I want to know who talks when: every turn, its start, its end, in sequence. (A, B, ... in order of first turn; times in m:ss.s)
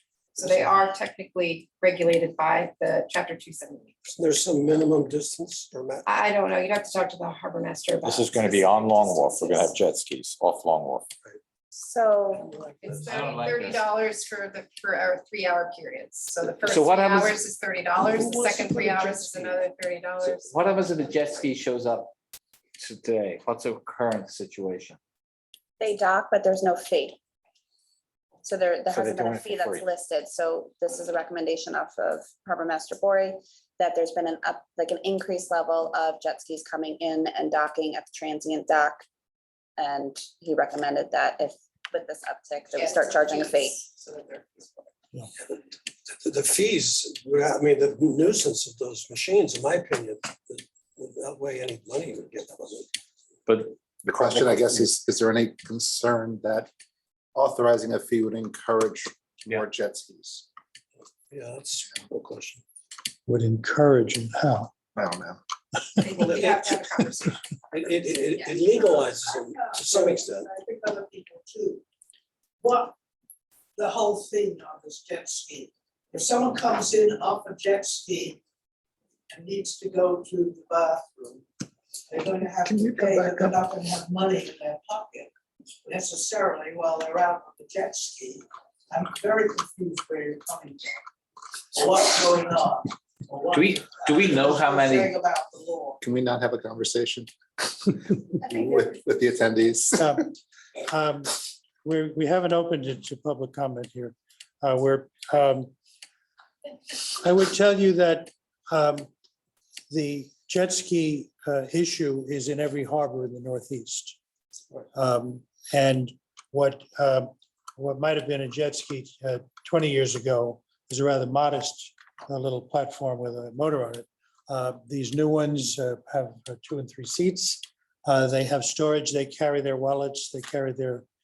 0:00.4-0:03.9 A
0:04.0-0:06.0 B
0:06.0-0:09.7 A
0:08.0-0:11.1 C
0:11.7-0:12.5 D
0:12.4-0:12.9 B
0:12.8-0:20.5 A
0:13.1-0:13.8 E
0:16.7-0:17.4 E
0:18.0-0:18.9 F
0:20.2-0:22.1 E
0:22.8-0:25.0 E
0:25.8-0:27.2 D
0:28.4-0:39.0 D
0:28.9-0:29.7 C
0:39.8-0:43.8 D
0:42.7-0:44.9 A
0:46.1-0:52.9 B
0:53.5-0:54.8 E
0:54.0-0:56.7 G
0:57.3-1:00.4 G
1:01.3-1:02.6 B
1:03.3-1:04.7 H
1:04.9-1:05.4 G
1:06.0-1:07.4 A
1:06.2-1:06.7 B
1:07.7-1:10.5 B
1:08.3-1:08.6 A
1:08.3-1:11.8 F
1:12.6-1:12.9 F
1:13.8-1:18.4 F
1:19.3-1:21.4 F
1:22.1-1:25.3 F
1:22.7-1:23.6 G
1:25.8-1:30.9 F
1:31.7-1:36.0 F
1:33.5-1:35.1 E
1:36.0-1:40.1 G
1:40.0-1:40.2 H
1:40.8-1:45.7 H
1:47.1-1:49.1 H
1:49.9-1:54.2 H
1:54.9-2:11.0 H